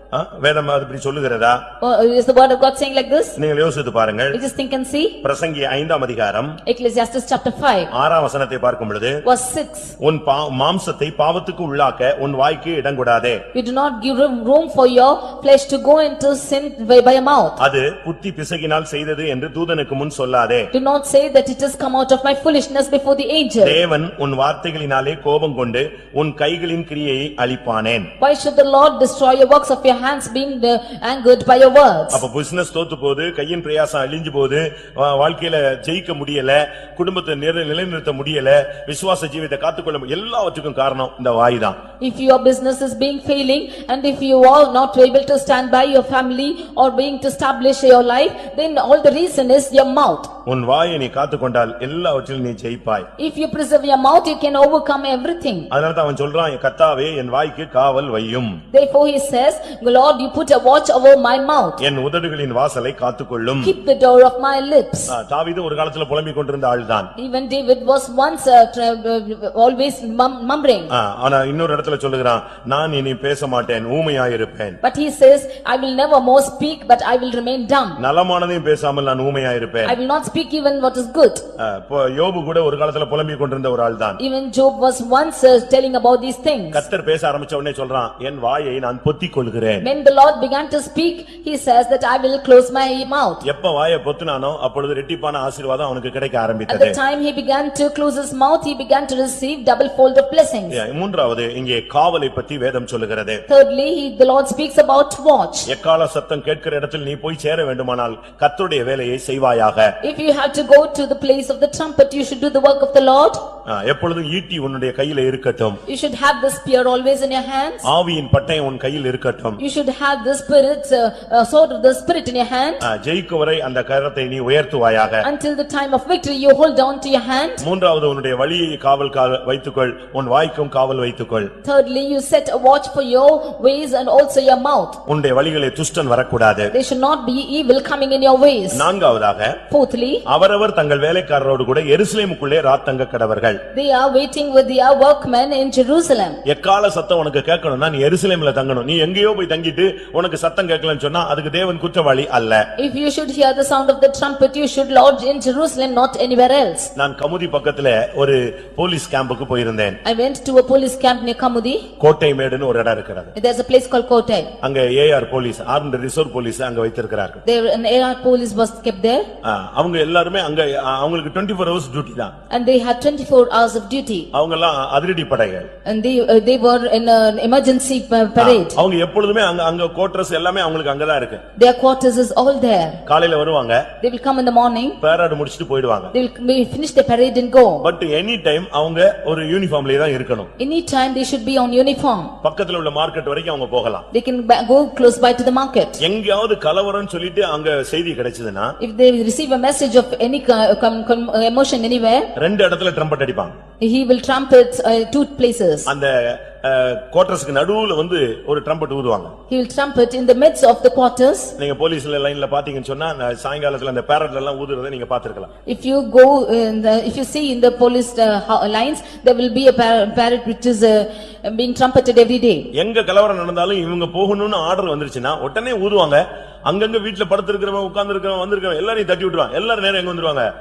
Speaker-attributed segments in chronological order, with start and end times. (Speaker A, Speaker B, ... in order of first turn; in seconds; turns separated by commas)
Speaker A: 0.1-1.6, Speaker B: 1.8-3.4, Speaker A: 3.4-4.4, Speaker B: 4.3-5.2, Speaker A: 5.2-6.6, Speaker B: 6.7-7.9, Speaker A: 7.9-9.2, Speaker B: 9.2-9.9, Speaker A: 10.0-13.4, Speaker B: 13.5-17.6, Speaker A: 17.6-20.7, Speaker B: 20.7-23.8, Speaker A: 23.6-28.1, Speaker B: 28.2-32.2, Speaker A: 32.1-41.8, Speaker B: 42.0-50.3, Speaker A: 50.5-53.1, Speaker B: 53.2-55.7, Speaker A: 55.7-58.6, Speaker B: 58.7-61.8, Speaker A: 61.8-63.7, Speaker B: 63.6-65.1, Speaker A: 65.1-67.1, Speaker B: 67.2-70.9, Speaker A: 70.9-74.8, Speaker B: 74.8-78.0, Speaker A: 78.0-80.0, Speaker B: 79.8-81.4, Speaker A: 81.6-84.2, Speaker B: 84.2-86.8, Speaker A: 86.7-89.9, Speaker B: 89.8-93.4, Speaker A: 93.4-97.0, Speaker B: 96.7-100.8, Speaker A: 100.7-103.4, Speaker B: 103.5-105.7, Speaker A: 105.7-109.9, Speaker B: 110.0-113.4, Speaker A: 113.7-115.8, Speaker B: 115.9-117.9, Speaker A: 117.8-119.6, Speaker B: 119.6-122.8, Speaker A: 122.8-125.3, Speaker B: 125.2-127.6, Speaker A: 127.6-131.5, Speaker B: 131.6-135.0, Speaker A: 135.1-136.7, Speaker B: 136.7-138.9, Speaker A: 138.7-139.6, Speaker B: 139.7-140.2, Speaker A: 140.3-143.6, Speaker B: 143.7-146.4, Speaker A: 146.4-152.7, Speaker B: 152.8-156.9, Speaker A: 157.0-160.0, Speaker B: 160.1-161.8, Speaker A: 162.0-163.3, Speaker B: 163.3-164.5, Speaker A: 164.6-167.4, Speaker B: 167.4-169.2, Speaker A: 169.4-172.3, Speaker B: 172.5-174.3, Speaker A: 174.3-175.7, Speaker B: 175.9-178.8, Speaker A: 178.4-181.4, Speaker B: 181.6-183.0, Speaker A: 183.1-183.9, Speaker B: 184.0-185.0, Speaker A: 185.0-186.1, Speaker B: 186.1-187.9, Speaker A: 187.8-190.5, Speaker B: 190.6-192.3, Speaker A: 192.4-194.1, Speaker B: 194.1-196.0, Speaker A: 196.0-198.8, Speaker B: 198.8-202.3, Speaker A: 202.4-203.6, Speaker B: 203.8-205.9, Speaker A: 205.9-209.3, Speaker B: 209.5-211.6, Speaker A: 211.6-215.5, Speaker B: 215.7-222.7, Speaker A: 222.8-230.5